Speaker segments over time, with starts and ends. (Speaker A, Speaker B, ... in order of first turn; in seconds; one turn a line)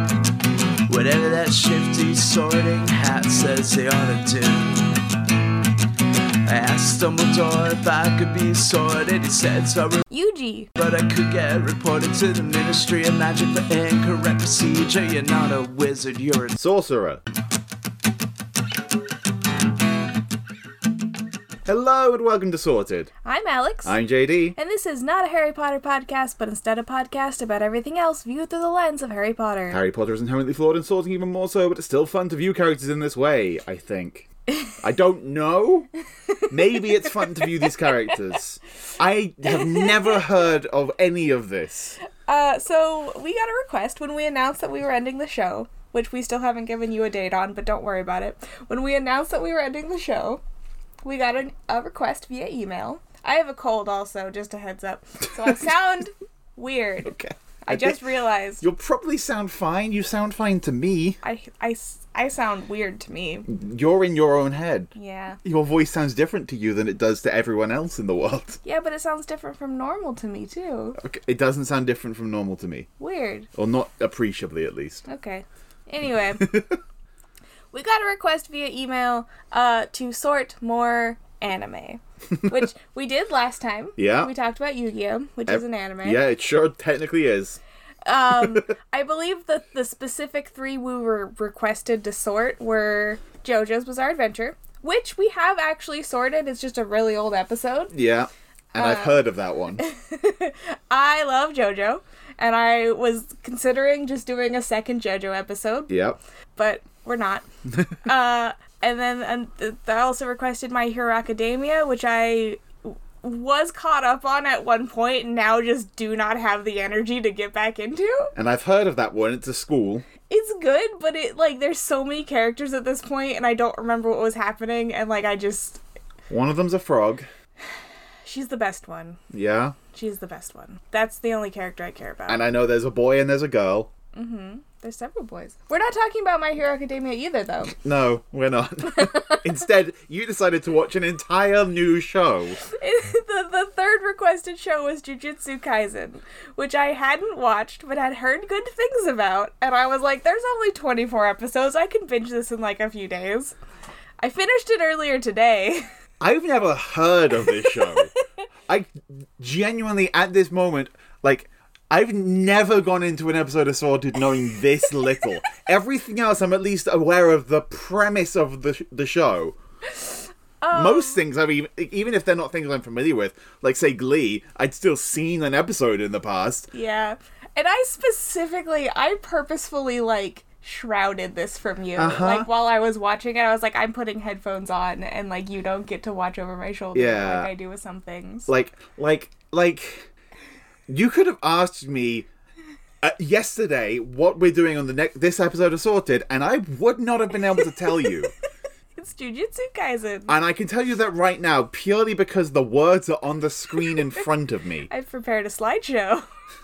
Speaker A: 0.9-5.0
Speaker A: 6.5-10.0
Speaker B: 10.1-10.7
Speaker A: 10.8-16.5
Speaker C: 16.6-17.2
Speaker C: 21.7-23.1
Speaker B: 23.2-24.0
Speaker C: 23.9-24.6
Speaker B: 24.6-29.8
Speaker C: 29.7-34.3
Speaker C: 34.8-35.9
Speaker C: 36.5-42.0
Speaker B: 37.1-37.5
Speaker B: 39.5-40.2
Speaker B: 42.3-50.4
Speaker B: 51.0-58.6
Speaker C: 57.0-58.0
Speaker C: 58.6-61.2
Speaker B: 61.2-63.5
Speaker C: 63.5-64.9
Speaker B: 65.0-65.4
Speaker C: 65.4-68.6
Speaker B: 68.6-71.0
Speaker C: 71.0-72.9
Speaker B: 73.0-73.5
Speaker C: 73.5-75.0
Speaker B: 75.1-76.5
Speaker C: 76.3-76.8
Speaker B: 77.7-86.2
Speaker C: 84.0-84.3
Speaker C: 85.5-87.6
Speaker B: 88.1-97.9
Speaker C: 88.3-88.6
Speaker C: 97.9-99.8
Speaker B: 98.8-106.0
Speaker C: 105.9-106.2
Speaker B: 106.6-107.5
Speaker B: 108.0-118.3
Speaker C: 118.3-120.1
Speaker B: 120.3-125.8
Speaker C: 126.3-127.3
Speaker B: 128.3-129.2
Speaker C: 129.3-129.8
Speaker B: 129.9-132.4
Speaker C: 132.3-133.9
Speaker B: 134.2-137.8
Speaker C: 137.7-142.6
Speaker B: 138.9-139.5
Speaker B: 142.6-153.6
Speaker B: 154.2-155.9
Speaker C: 156.2-158.1
Speaker C: 158.7-169.6
Speaker B: 170.0-171.2
Speaker C: 170.7-176.7
Speaker B: 176.7-188.5
Speaker C: 182.0-182.5
Speaker C: 186.9-187.5
Speaker C: 188.5-190.1
Speaker C: 190.9-192.3
Speaker C: 193.0-198.3
Speaker B: 199.0-200.4
Speaker C: 200.3-204.9
Speaker B: 204.9-206.2